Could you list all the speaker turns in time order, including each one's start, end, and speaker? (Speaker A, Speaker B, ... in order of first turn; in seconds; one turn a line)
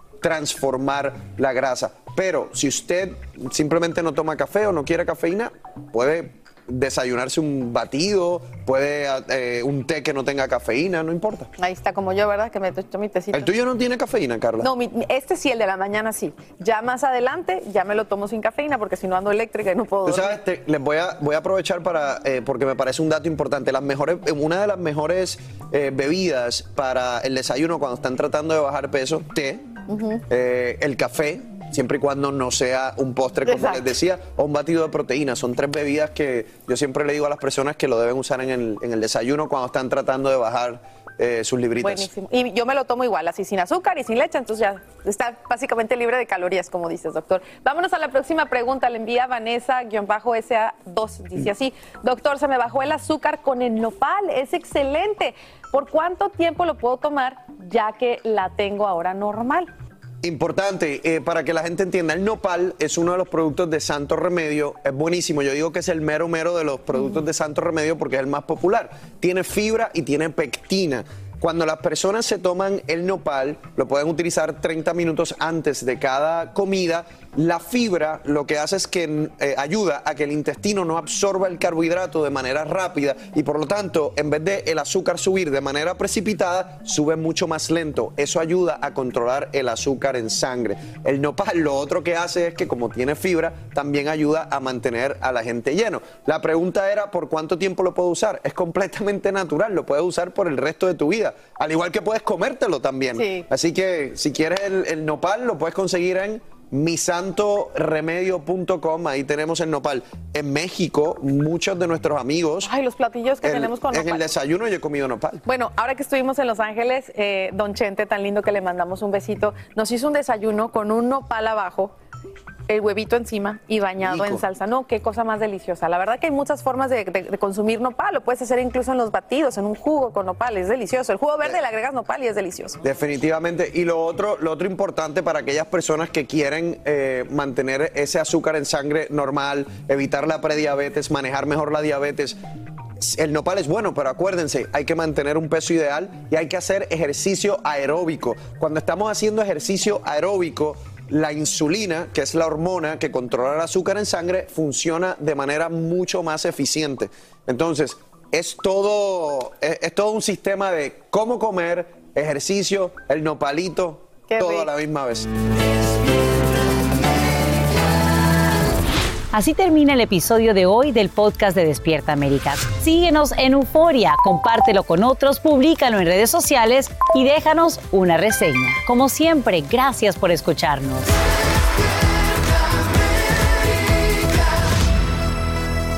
Speaker A: 0.2-11.5
Speaker B: 11.6-13.6
Speaker A: 13.3-14.7
Speaker B: 14.6-20.4
Speaker A: 20.0-29.6
Speaker B: 29.9-30.2
Speaker A: 30.3-42.1
Speaker B: 33.5-33.9
Speaker B: 41.8-59.7
Speaker A: 60.2-112.7
Speaker B: 103.1-103.5
Speaker B: 112.6-114.2
Speaker A: 113.4-115.4
Speaker B: 115.5-121.9
Speaker B: 122.7-132.8
Speaker A: 124.0-124.4
Speaker A: 132.8-142.4
Speaker A: 143.0-165.3
Speaker B: 164.3-164.7
Speaker C: 169.3-181.2